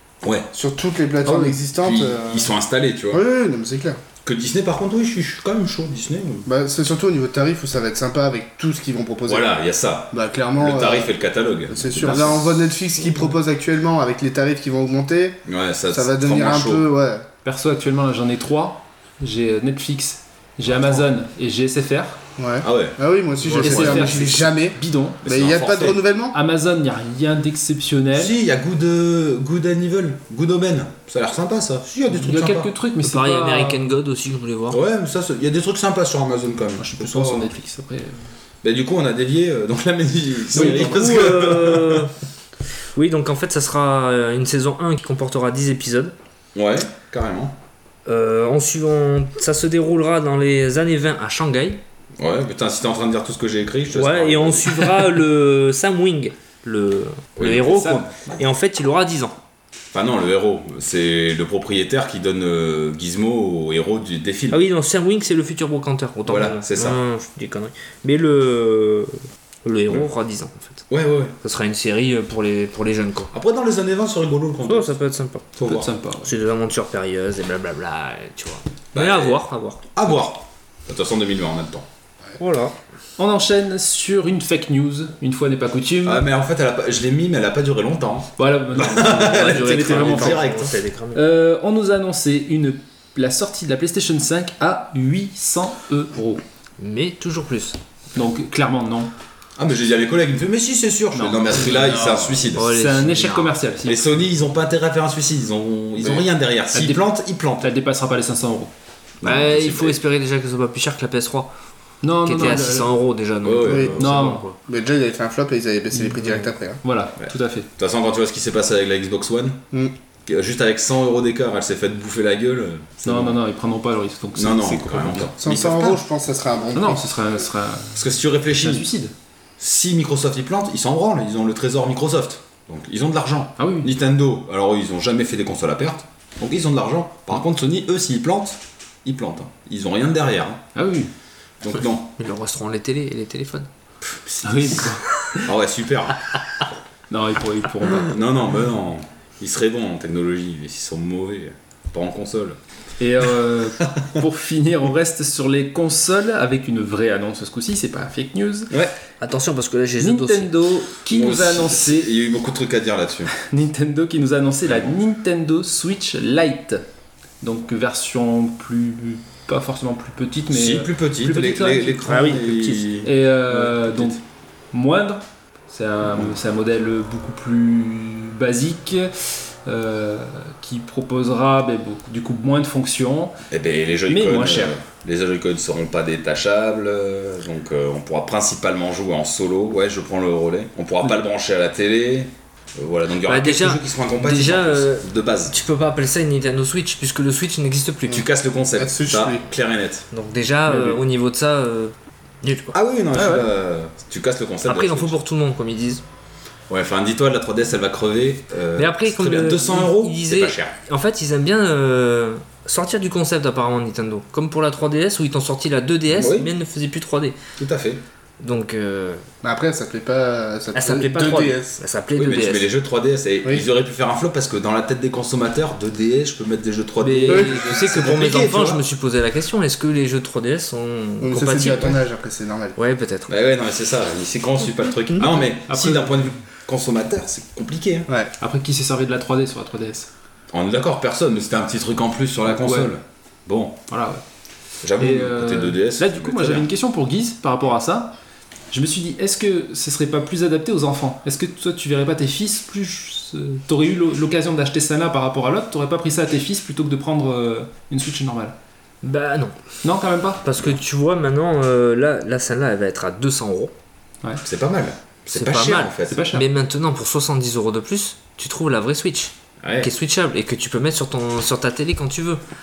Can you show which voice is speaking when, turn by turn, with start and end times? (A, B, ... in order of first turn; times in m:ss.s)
0:00.2-0:00.5 A
0:00.5-0:02.5 B
0:01.2-0:01.6 C
0:01.7-0:03.2 A
0:03.1-0:04.0 B
0:04.2-0:06.5 A
0:06.4-0:09.5 B
0:09.3-0:12.5 A
0:10.1-0:11.1 B
0:11.7-0:17.3 B
0:12.0-0:12.3 C
0:15.4-0:16.9 A
0:17.4-0:22.2 C
0:22.4-0:26.4 B
0:22.6-0:24.4 A
0:23.4-0:25.2 C
0:25.2-0:26.0 A
0:26.3-0:28.4 C
0:28.1-0:32.7 A
0:32.1-0:33.9 C
0:33.0-0:34.8 D
0:34.7-0:37.5 A
0:36.8-0:38.3 C
0:38.6-0:42.1 A
0:40.5-0:41.3 C
0:40.5-0:42.1 D
0:42.9-0:46.1 D
0:46.5-0:47.6 A
0:48.0-0:51.8 D
0:52.2-0:55.2 A
0:53.9-0:59.4 D
0:57.4-0:58.3 A
0:59.9-1:04.6 A
1:04.5-1:10.8 D
1:06.2-1:07.0 A
1:10.9-1:11.3 A
1:11.4-1:13.3 D
1:13.3-1:15.0 A
1:14.6-1:15.4 D
1:15.6-1:15.9 A
1:15.6-1:16.3 C
1:16.2-1:19.8 D
1:18.9-1:19.4 A
1:19.9-1:21.8 A
1:22.4-1:22.7 D
1:23.2-1:26.2 C
1:26.0-1:30.8 A
1:28.4-1:30.4 C
1:29.1-1:31.2 D
1:31.1-1:36.4 C
1:36.8-1:37.8 D
1:38.1-1:39.1 C
1:39.6-1:42.6 A
1:41.1-1:44.2 C
1:42.5-1:43.6 D
1:43.8-1:47.7 A
1:46.0-1:46.3 B
1:46.7-1:47.1 C
1:47.6-1:48.7 C
1:49.2-1:50.0 A
1:49.2-1:51.5 D
1:52.0-1:52.9 C
1:52.2-1:54.6 D
1:53.4-1:54.2 A
1:53.6-1:53.9 B
1:54.0-1:54.4 C
1:54.7-1:56.8 B
1:55.9-1:57.7 C
1:57.2-1:59.6 A
2:00.2-2:03.4 A
2:03.0-2:05.3 C
2:04.3-2:06.0 A
2:05.4-2:07.1 B
2:06.7-2:09.1 C
2:08.0-2:08.9 A
2:09.6-2:20.6 A
2:13.6-2:13.9 C
2:20.7-2:21.1 C
2:21.6-2:22.1 A
2:22.2-2:23.7 D
2:24.1-2:24.9 A
2:24.4-2:25.5 C
2:25.4-2:26.2 A
2:27.1-2:28.1 C
2:28.0-2:32.6 A
2:33.0-2:38.7 C
2:39.2-2:40.5 D
2:40.0-2:42.1 C
2:41.1-2:43.3 A
2:43.3-2:46.8 C
2:44.6-2:44.9 A
2:47.4-2:52.3 C
2:50.5-2:54.2 A
2:52.0-2:52.9 D
2:53.0-2:54.2 C
2:54.7-3:03.3 C
2:56.1-2:56.4 A
3:03.5-3:15.5 A
3:04.1-3:04.8 C
3:13.2-3:18.2 D
3:18.1-3:20.1 A
3:18.7-3:19.5 B
3:20.1-3:22.7 D
3:20.7-3:21.0 C
3:22.7-3:25.1 A
3:23.1-3:23.5 C
3:24.6-3:26.0 D
3:26.7-3:30.7 A
3:28.8-3:37.4 D
3:36.1-3:36.5 A
3:37.6-3:38.0 A
3:38.4-3:39.2 D
3:39.4-3:41.8 B
3:40.7-3:42.7 D
3:42.2-3:48.8 A
3:47.0-3:52.0 D
3:51.2-3:52.8 B
3:52.8-3:53.3 D
3:53.3-3:58.1 A
3:55.7-3:56.4 C
3:58.4-4:00.1 C
4:00.5-4:03.8 A
4:02.5-4:02.9 C
4:03.9-4:04.2 C
4:04.8-4:06.7 A
4:05.0-4:08.1 C
4:08.7-4:18.6 C
4:19.0-4:19.6 D
4:19.8-4:20.4 C
4:20.4-4:23.7 D
4:24.4-4:26.3 A
4:25.3-4:32.4 D
4:26.1-4:26.4 C
4:29.6-4:29.9 A